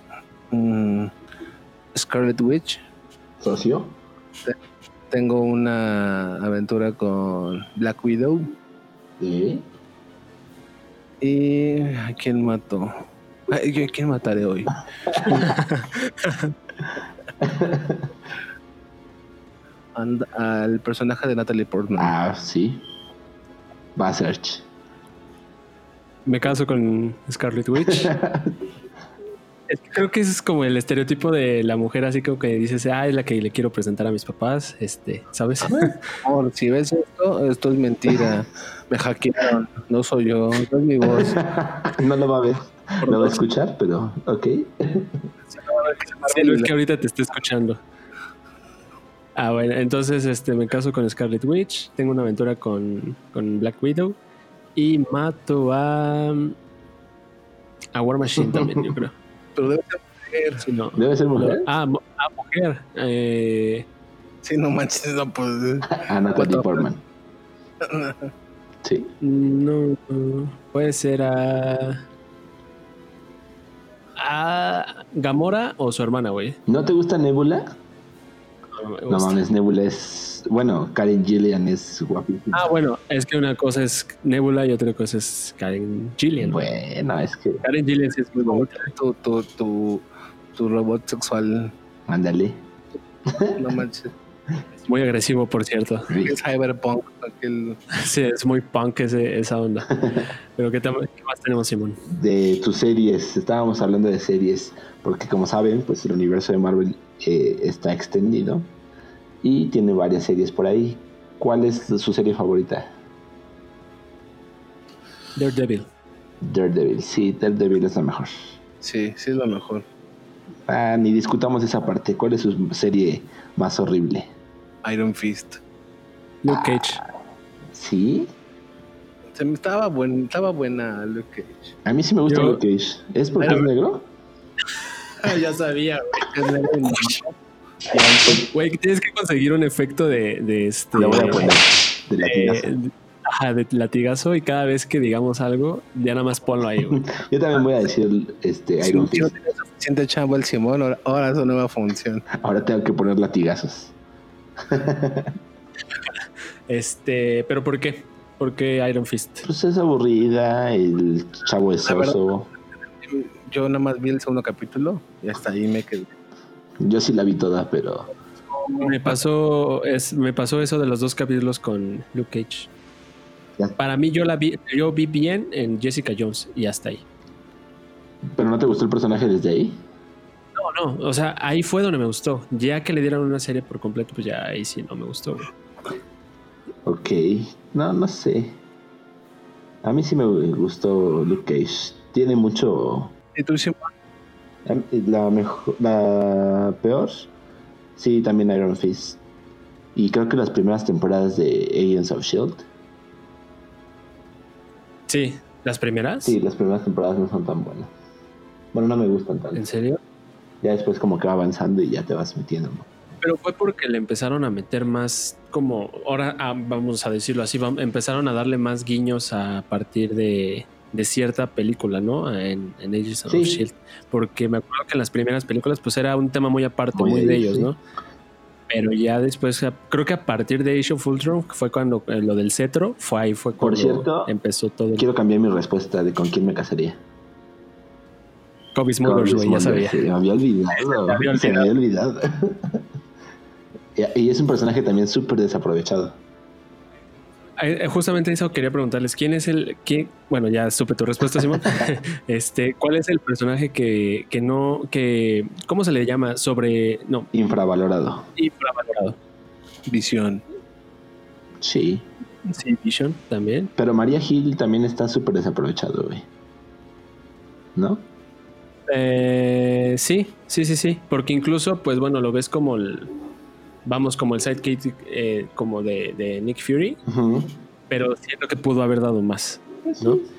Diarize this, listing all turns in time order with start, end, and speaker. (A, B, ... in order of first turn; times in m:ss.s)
0:00.5-0:01.1 A
0:01.9-0:02.8 A
0:03.4-0:03.9 B
0:05.1-0:08.5 A
0:09.2-0:09.6 B
0:11.2-0:14.8 A
0:15.3-0:16.5 C
0:17.4-0:18.0 B
0:20.0-0:22.1 A
0:22.0-0:22.8 B
0:24.0-0:24.6 B
0:26.2-0:28.1 C
0:27.8-0:28.6 B
0:29.7-0:36.1 C
0:36.2-0:41.4 A
0:41.0-0:45.2 B
0:43.0-0:43.3 C
0:45.6-0:46.7 A
0:46.2-0:47.8 C
0:49.4-0:54.2 C
0:54.8-0:56.6 C
0:57.9-0:59.1 C
0:58.4-0:58.9 B
0:59.6-1:00.6 A
1:00.6-1:03.8 C
1:01.0-1:01.7 B
1:04.4-1:06.9 A
1:05.9-1:07.0 B
1:07.8-1:08.3 A
1:08.8-1:09.1 B
1:09.2-1:12.0 C
1:14.2-1:16.6 C
1:16.7-1:17.8 B
1:18.7-1:19.4 C
1:19.1-1:22.7 B
1:22.5-1:26.6 C
1:26.4-1:27.6 B
1:27.6-1:28.9 C
1:28.5-1:30.0 A
1:30.5-1:31.7 A
1:32.1-1:32.6 B
1:33.3-1:33.6 B
1:33.4-1:34.1 A
1:34.8-1:36.1 C
1:36.1-1:36.4 B
1:36.2-1:37.8 A
1:37.9-1:40.0 C
1:40.0-1:40.3 B
1:40.6-1:42.0 C
1:42.0-1:48.7 B
1:49.4-1:52.9 B
1:55.4-1:55.9 C
1:56.4-1:58.5 B
1:58.8-1:59.8 A
2:00.7-2:04.3 B
2:04.8-2:05.6 A
2:06.4-2:07.0 C
2:06.5-2:07.0 B
2:07.7-2:08.3 B
2:09.3-2:11.8 A
2:11.8-2:14.1 B
2:12.3-2:12.6 C
2:15.2-2:17.2 C
2:16.3-2:17.3 A
2:17.9-2:21.5 C
2:20.9-2:22.7 B
2:22.2-2:27.0 C
2:26.9-2:29.3 B
2:28.8-2:32.2 A
2:32.3-2:33.9 B
2:34.6-2:35.4 B
2:36.7-2:39.5 C
2:39.4-2:42.5 B
2:41.8-2:42.2 A
2:43.0-2:46.1 A
2:46.8-2:48.1 B
2:48.6-2:48.9 A
2:48.8-2:52.7 C
2:53.8-2:57.0 C
2:58.3-2:59.8 B
3:00.6-3:05.5 C
3:06.8-3:08.6 B
3:09.8-3:13.1 B
3:13.3-3:13.9 A
3:14.6-3:17.3 B
3:18.0-3:19.2 B
3:19.9-3:22.6 B
3:25.1-3:26.4 C
3:26.2-3:27.9 B
3:28.7-3:29.6 B
3:29.5-3:30.0 C
3:30.6-3:32.9 B
3:33.2-3:47.8 C
3:43.3-3:43.6 B
3:46.9-3:47.7 B
3:48.7-3:55.0 C
3:53.6-3:54.3 B
3:55.0-3:57.0 B
3:58.7-4:00.0 C
3:59.0-4:02.8 B
4:00.8-4:01.7 C
4:04.0-4:06.2 B
4:07.6-4:17.3 C
4:17.3-4:18.3 B
4:18.4-4:19.2 C
4:19.9-4:20.4 A
4:21.6-4:22.1 B
4:22.4-4:23.7 C
4:23.8-4:26.2 B
4:27.7-4:28.0 B
4:28.9-4:33.1 C
4:33.8-4:37.0 C
4:37.0-4:37.5 B
4:37.9-4:40.2 C
4:39.9-4:40.2 B